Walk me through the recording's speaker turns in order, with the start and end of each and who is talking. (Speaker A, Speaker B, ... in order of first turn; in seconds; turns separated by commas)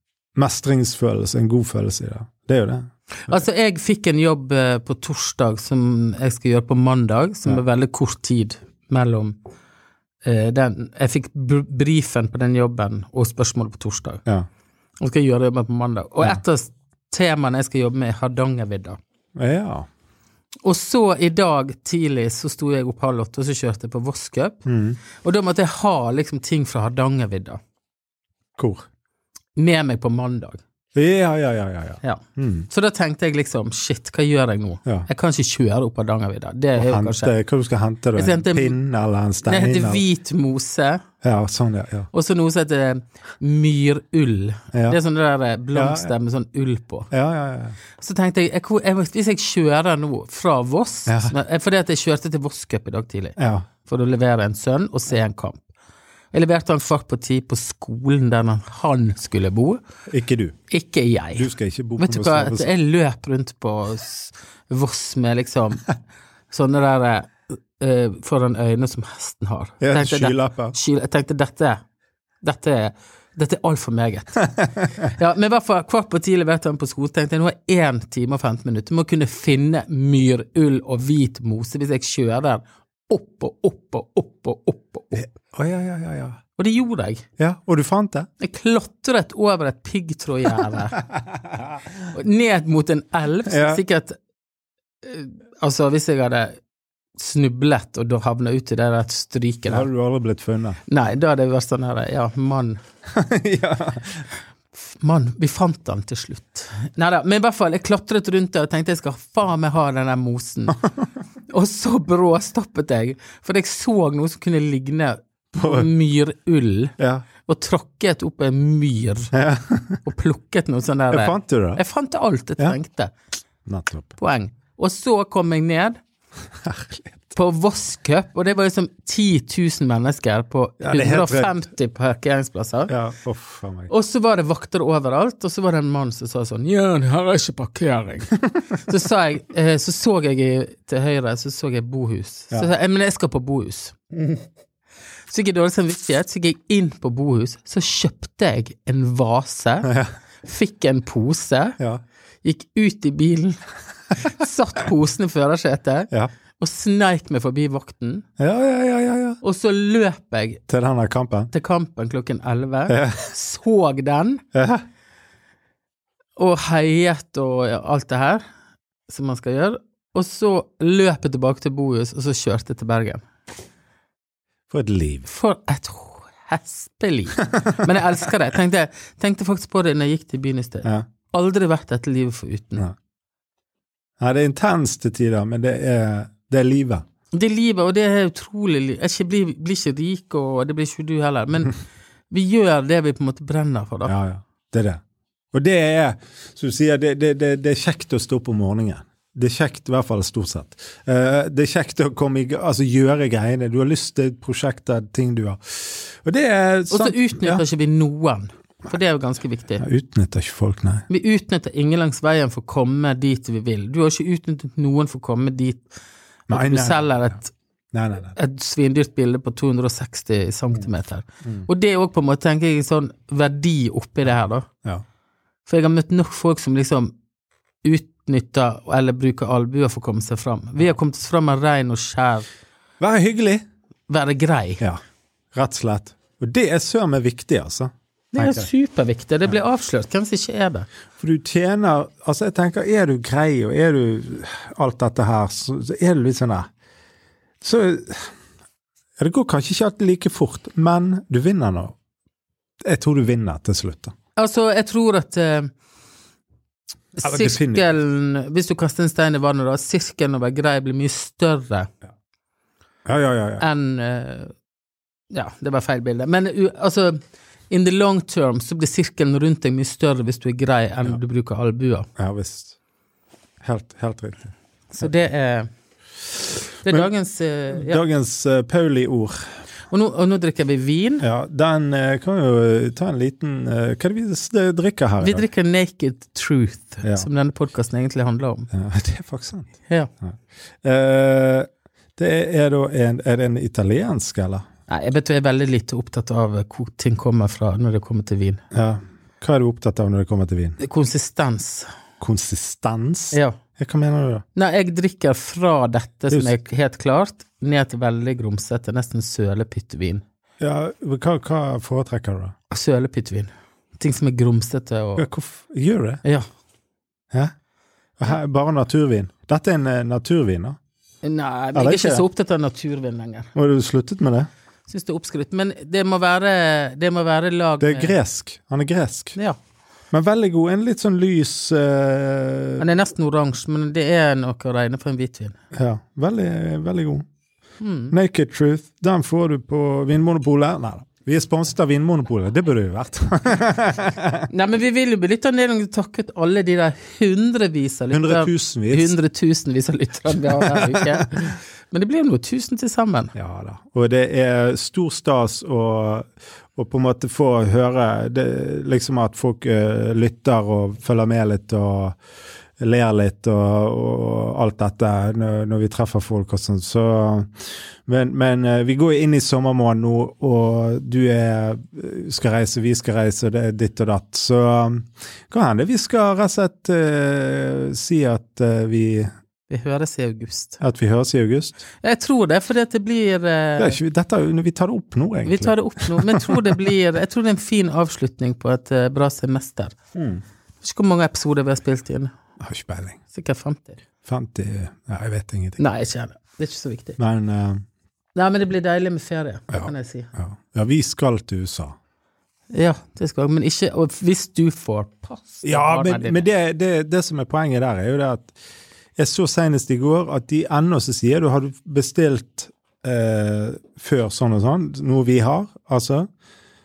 Speaker A: 0.4-3.3, Speaker B: 3.3-9.4, Speaker B: 10.2-14.2, Speaker B: 15.0-19.0, Speaker A: 19.4-19.9, Speaker B: 20.6-24.6, Speaker A: 24.7-25.0, Speaker B: 25.2-27.6, Speaker A: 28.6-28.8, Speaker B: 29.6-30.6, Speaker A: 30.9-32.7, Speaker B: 32.0-37.3, Speaker A: 36.8-40.0, Speaker B: 38.2-38.8, Speaker B: 39.5-41.0, Speaker A: 41.2-42.1, Speaker B: 42.1-47.1, Speaker A: 44.7-45.0, Speaker A: 45.7-46.1, Speaker A: 47.1-47.8, Speaker B: 48.0-55.7, Speaker A: 51.1-51.3, Speaker A: 53.4-53.7, Speaker B: 56.3-59.8, Speaker A: 60.1-60.6, Speaker B: 60.7-65.9, Speaker A: 61.4-62.7, Speaker B: 66.5-71.8, Speaker A: 69.8-70.8, Speaker B: 72.4-85.2, Speaker A: 85.1-86.4, Speaker B: 86.6-87.3, Speaker A: 87.4-88.3, Speaker B: 88.4-91.0, Speaker A: 91.2-91.8, Speaker B: 92.1-94.2, Speaker A: 93.5-93.8, Speaker B: 95.0-96.6, Speaker B: 97.2-99.9, Speaker A: 99.7-100.8, Speaker B: 100.9-102.8, Speaker A: 103.1-104.3, Speaker B: 104.8-110.8, Speaker B: 111.5-117.0, Speaker A: 115.6-115.9, Speaker A: 117.0-117.2, Speaker B: 117.5-119.3, Speaker A: 119.3-120.0, Speaker B: 120.0-123.1, Speaker A: 121.1-121.8, Speaker A: 123.7-124.1, Speaker B: 124.2-126.0, Speaker A: 126.6-127.3, Speaker B: 127.3-132.9, Speaker A: 130.8-131.6, Speaker A: 132.9-133.9, Speaker B: 133.9-144.0, Speaker B: 145.3-151.8, Speaker A: 149.9-150.1, Speaker B: 152.4-153.6, Speaker B: 154.1-158.2, Speaker A: 158.4-159.4, Speaker B: 159.4-160.6, Speaker A: 160.7-161.5, Speaker B: 161.5-164.4, Speaker A: 162.9-163.3, Speaker A: 164.5-164.8, Speaker B: 166.4-168.4, Speaker B: 169.1-173.2, Speaker A: 174.7-175.3, Speaker B: 175.3-182.9, Speaker A: 177.6-177.9, Speaker A: 184.2-187.0, Speaker B: 187.3-191.8, Speaker B: 192.3-194.1, Speaker A: 194.1-195.0, Speaker A: 195.5-207.6, Speaker B: 206.9-209.8, Speaker A: 209.8-211.1, Speaker B: 211.1-215.9, Speaker A: 216.5-217.3, Speaker B: 216.5-217.5, Speaker A: 217.9-218.3, Speaker B: 218.3-224.7, Speaker B: 225.7-227.1, Speaker B: 227.8-232.5, Speaker A: 233.0-233.6, Speaker B: 234.1-234.8, Speaker A: 235.5-238.7, Speaker B: 238.3-240.9, Speaker A: 241.2-246.7, Speaker A: 247.6-248.3, Speaker A: 249.2-251.9, Speaker A: 252.8-254.1, Speaker B: 254.4-255.7, Speaker B: 257.2-261.9, Speaker A: 257.2-257.9, Speaker A: 263.1-263.6, Speaker B: 263.6-264.5, Speaker B: 265.3-272.1, Speaker A: 272.2-272.8, Speaker A: 273.6-274.5, Speaker B: 274.9-275.7, Speaker B: 276.9-278.0, Speaker A: 277.7-279.5, Speaker B: 279.9-281.2, Speaker A: 281.2-285.4, Speaker B: 285.2-288.7, Speaker A: 287.0-287.3, Speaker A: 288.7-289.7, Speaker A: 290.2-294.6, Speaker B: 294.9-298.6, Speaker A: 298.7-300.8, Speaker B: 300.8-301.9, Speaker A: 302.2-304.4, Speaker B: 303.3-303.6, Speaker B: 304.6-310.2, Speaker A: 310.6-312.5, Speaker B: 312.7-315.2, Speaker A: 315.2-316.2, Speaker A: 318.2-320.8, Speaker B: 321.2-323.5, Speaker A: 321.7-322.2, Speaker A: 323.6-324.5, Speaker B: 324.9-328.2, Speaker A: 327.8-329.4, Speaker A: 330.1-332.8, Speaker B: 332.8-335.6, Speaker A: 335.7-337.2, Speaker B: 337.8-338.1, Speaker A: 338.1-344.5, Speaker B: 344.5-353.3, Speaker A: 348.1-349.2, Speaker A: 350.3-351.3, Speaker A: 353.4-362.2, Speaker A: 362.8-379.3, Speaker B: 379.7-380.8, Speaker A: 380.8-381.8, Speaker B: 382.0-384.0, Speaker A: 383.8-386.7, Speaker B: 385.5-390.0, Speaker A: 390.1-390.4, Speaker B: 390.8-392.3, Speaker A: 392.6-393.2, Speaker B: 393.3-394.0, Speaker A: 394.2-395.8, Speaker B: 395.8-397.2, Speaker A: 397.2-397.8, Speaker B: 398.4-400.3, Speaker A: 399.7-401.9, Speaker B: 402.7-406.4, Speaker A: 405.6-408.5, Speaker A: 409.2-416.3